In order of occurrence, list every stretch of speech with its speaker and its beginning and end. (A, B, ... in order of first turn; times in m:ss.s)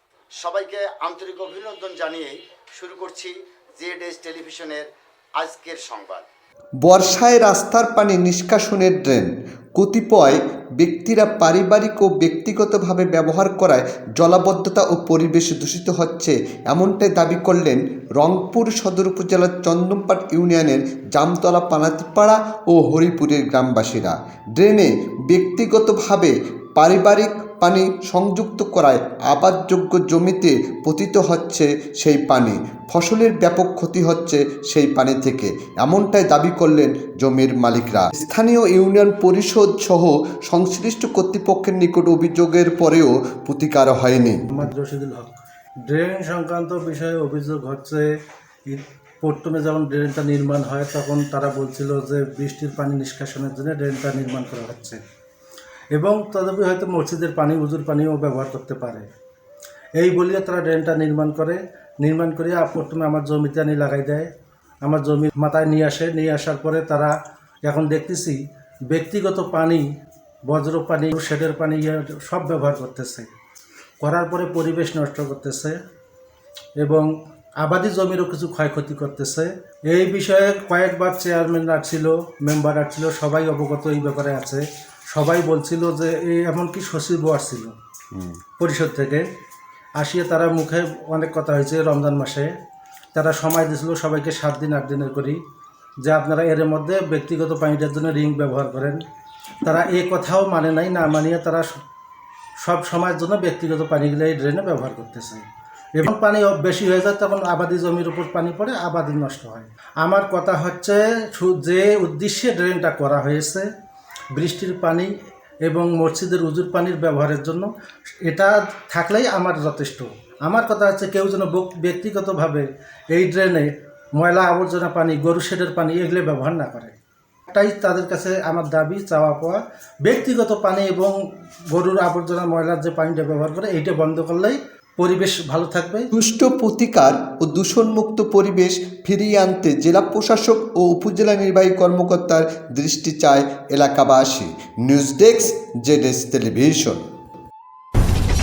0:00.4-0:04.8 A
0:05.4-0:06.2 A
0:06.9-0:44.7 B
0:44.5-0:48.1 C
0:48.7-0:55.0 C
0:55.9-0:59.1 C
1:00.0-1:04.3 C
1:04.8-1:07.1 C
1:07.6-1:08.4 C
1:08.9-1:09.8 C
1:10.5-1:13.3 C
1:14.0-1:15.8 C
1:16.8-1:27.7 C
1:28.1-1:28.4 B
1:28.6-1:29.3 C
1:30.0-1:32.5 C
1:33.1-1:35.4 C
1:36.0-1:39.0 C
1:39.6-1:41.7 C
1:42.6-1:53.7 C
1:54.3-1:55.1 C
1:55.6-1:57.7 C
1:58.2-2:06.9 C
2:07.5-2:11.2 C
2:11.7-2:16.1 C
2:16.1-2:27.0 B